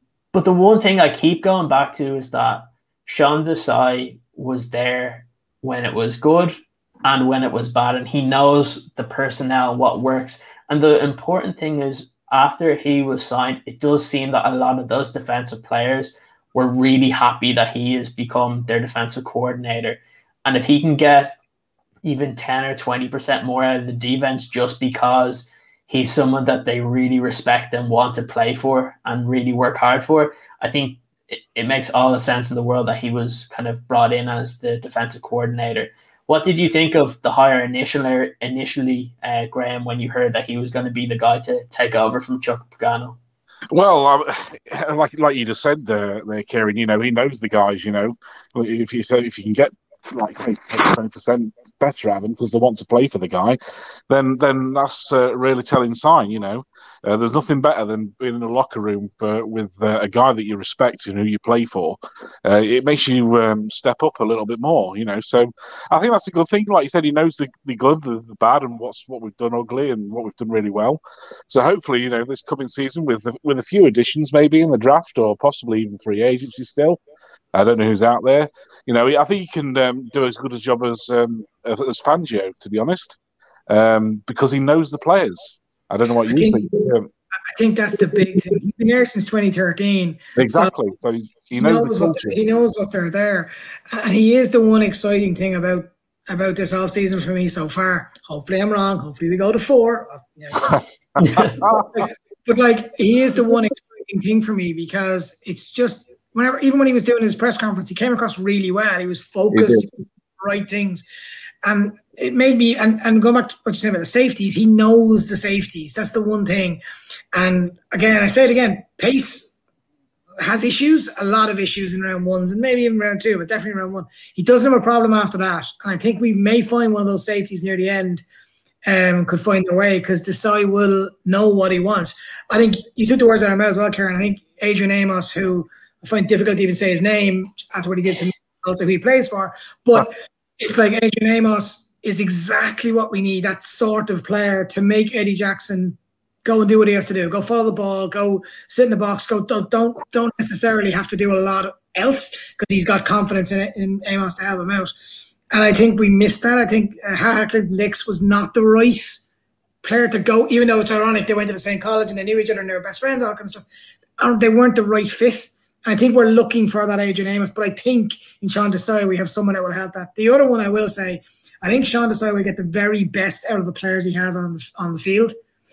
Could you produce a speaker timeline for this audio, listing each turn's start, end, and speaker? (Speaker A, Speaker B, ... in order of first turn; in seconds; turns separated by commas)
Speaker A: 0.3-21.4, Speaker A: 22.0-43.2, Speaker B: 43.7-53.6, Speaker B: 54.1-77.0, Speaker B: 77.5-87.1, Speaker C: 86.3-86.8, Speaker C: 87.5-90.7, Speaker B: 90.4-92.4, Speaker C: 91.5-100.8, Speaker A: 101.2-101.5, Speaker B: 101.3-102.0, Speaker C: 101.5-111.0, Speaker B: 109.5-109.9, Speaker C: 111.6-116.8, Speaker C: 117.3-119.5, Speaker C: 120.4-128.2, Speaker C: 128.8-154.9, Speaker C: 155.5-159.2, Speaker C: 159.8-163.6, Speaker C: 164.2-175.3